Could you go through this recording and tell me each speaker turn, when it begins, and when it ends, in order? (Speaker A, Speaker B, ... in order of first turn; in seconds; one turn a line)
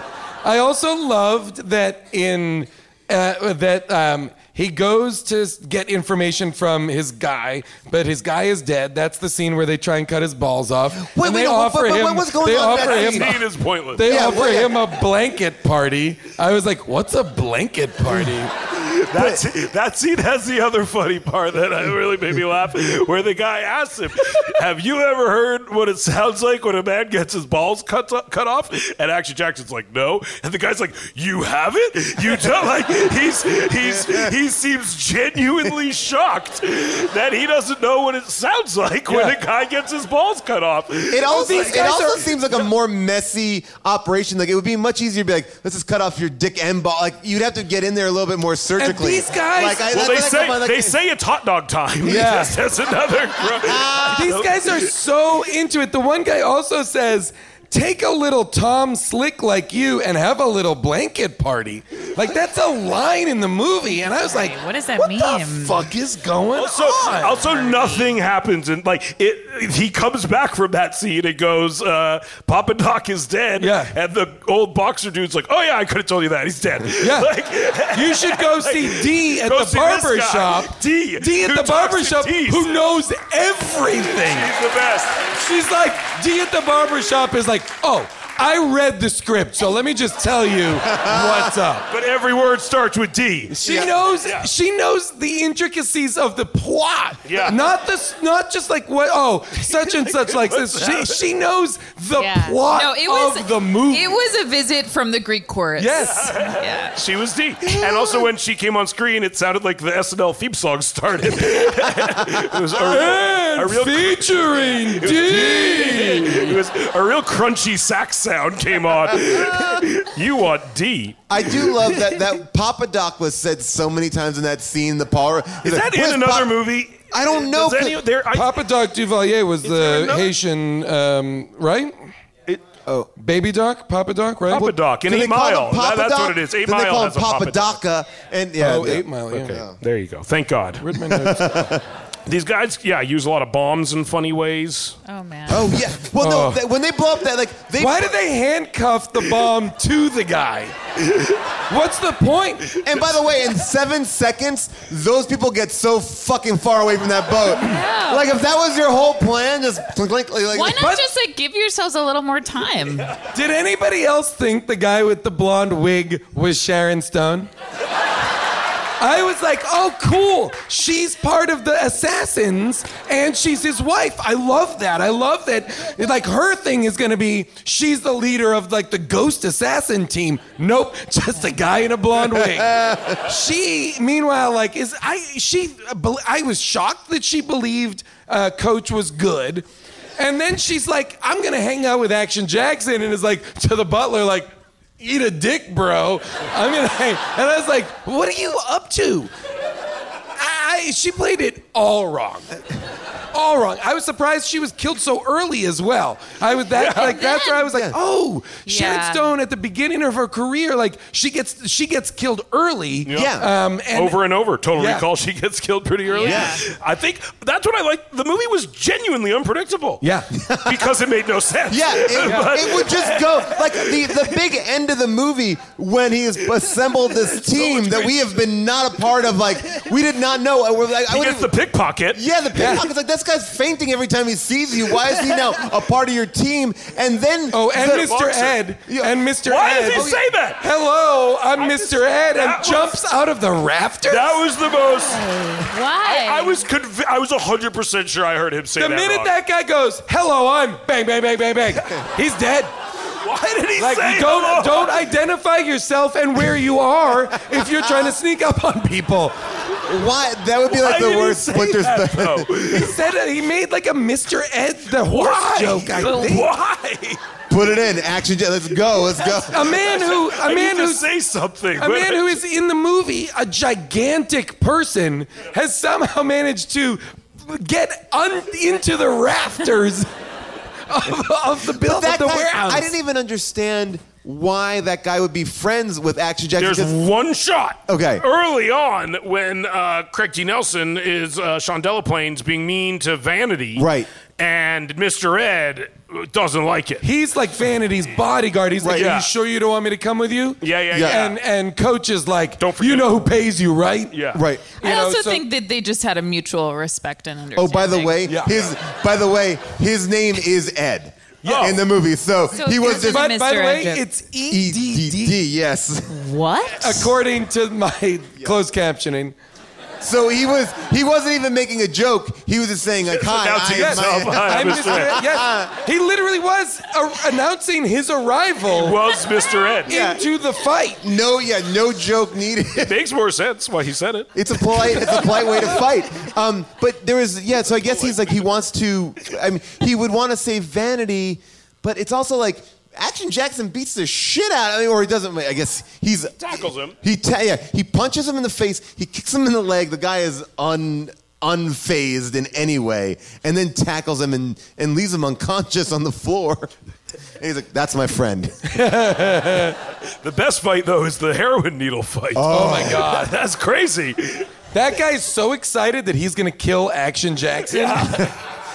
Speaker A: 0.4-18.5
Speaker B: 11.0-13.4
Speaker C: 12.6-14.1
Speaker B: 14.0-14.8
Speaker C: 18.8-41.9
Speaker B: 19.1-19.4
Speaker B: 34.0-34.2
Speaker A: 39.1-39.4
Speaker B: 41.1-51.0
Speaker A: 41.3-42.3
Speaker A: 48.8-49.9
Speaker C: 49.9-54.9
Speaker A: 52.0-52.6
Speaker B: 53.4-54.4
Speaker A: 54.1-67.5
Speaker D: 63.9-65.8
Speaker C: 66.6-82.8
Speaker D: 67.3-68.1
Speaker A: 73.6-73.9
Speaker A: 77.0-77.3
Speaker A: 77.9-84.5
Speaker C: 84.1-85.3
Speaker A: 85.3-91.9
Speaker B: 90.9-91.5
Speaker C: 91.9-93.6
Speaker A: 93.5-104.2
Speaker B: 93.6-93.9
Speaker C: 97.3-97.6
Speaker C: 100.1-101.2
Speaker D: 102.2-107.0
Speaker A: 105.8-106.3
Speaker C: 106.1-121.9
Speaker A: 112.9-116.6
Speaker B: 121.3-126.6
Speaker C: 125.6-128.6
Speaker B: 127.1-128.0
Speaker A: 128.3-132.1
Speaker C: 129.6-130.3
Speaker A: 133.2-134.7
Speaker C: 134.5-137.8
Speaker B: 134.5-139.8
Speaker A: 138.6-139.6
Speaker C: 139.3-140.8
Speaker A: 140.8-141.5
Speaker B: 141.1-141.8
Speaker C: 142.3-145.0
Speaker D: 145.1-145.7
Speaker B: 145.5-148.2
Speaker A: 146.2-146.6
Speaker A: 147.8-150.8
Speaker A: 151.7-152.8
Speaker B: 152.8-161.0
Speaker D: 157.6-158.3
Speaker D: 160.5-163.1
Speaker A: 163.3-167.5
Speaker A: 169.0-189.7
Speaker A: 190.2-199.3
Speaker A: 200.4-202.5
Speaker A: 203.3-214.2
Speaker C: 206.8-207.1
Speaker D: 206.9-207.7
Speaker B: 207.7-208.0
Speaker D: 208.7-209.3
Speaker C: 213.1-213.3
Speaker B: 213.1-213.5
Speaker C: 213.9-220.0
Speaker A: 214.7-215.1
Speaker D: 216.1-216.6
Speaker B: 216.2-216.6
Speaker A: 220.0-220.3
Speaker B: 220.5-220.8
Speaker C: 220.6-224.2
Speaker B: 221.7-231.5
Speaker A: 222.2-222.6
Speaker C: 227.3-228.2
Speaker C: 231.1-232.2
Speaker B: 232.1-238.1
Speaker A: 232.6-232.8
Speaker A: 237.5-244.4
Speaker C: 237.8-238.6
Speaker C: 239.5-240.6
Speaker C: 241.6-243.0
Speaker C: 244.1-245.2
Speaker D: 244.9-246.6
Speaker C: 246.0-249.3
Speaker A: 248.8-252.7
Speaker C: 253.2-254.9
Speaker A: 253.8-259.4
Speaker B: 259.9-262.9
Speaker C: 260.7-262.9
Speaker A: 262.8-266.5
Speaker C: 265.1-267.2
Speaker B: 267.5-269.8
Speaker C: 269.2-272.4
Speaker A: 269.5-271.1
Speaker A: 271.8-280.1
Speaker A: 280.9-282.9
Speaker B: 281.8-286.9
Speaker C: 286.6-293.9
Speaker B: 287.9-288.2
Speaker B: 293.8-294.1
Speaker C: 294.4-297.0
Speaker A: 297.0-304.2
Speaker B: 298.8-299.1
Speaker C: 298.9-299.3
Speaker C: 300.6-301.4
Speaker B: 300.9-301.2
Speaker C: 302.6-303.2
Speaker C: 304.1-304.4
Speaker B: 304.4-304.7
Speaker A: 304.8-305.4
Speaker D: 304.8-308.2
Speaker B: 307.6-313.3
Speaker A: 308.3-308.6
Speaker C: 311.4-311.8
Speaker D: 312.5-314.1
Speaker A: 312.9-315.4
Speaker B: 314.5-316.1
Speaker D: 316.1-317.1
Speaker A: 316.8-319.4
Speaker B: 320.0-325.7
Speaker C: 323.1-325.2
Speaker A: 323.7-329.0
Speaker C: 328.7-329.9
Speaker B: 329.9-330.2
Speaker A: 329.9-331.0
Speaker B: 331.0-332.9
Speaker C: 332.8-334.3
Speaker B: 334.4-346.4
Speaker C: 337.7-338.3
Speaker C: 346.4-346.9
Speaker B: 347.0-356.7
Speaker B: 357.4-358.6
Speaker A: 358.7-359.8
Speaker C: 360.2-364.5
Speaker B: 362.4-363.1
Speaker A: 362.5-363.3
Speaker A: 364.7-368.2
Speaker C: 367.7-368.2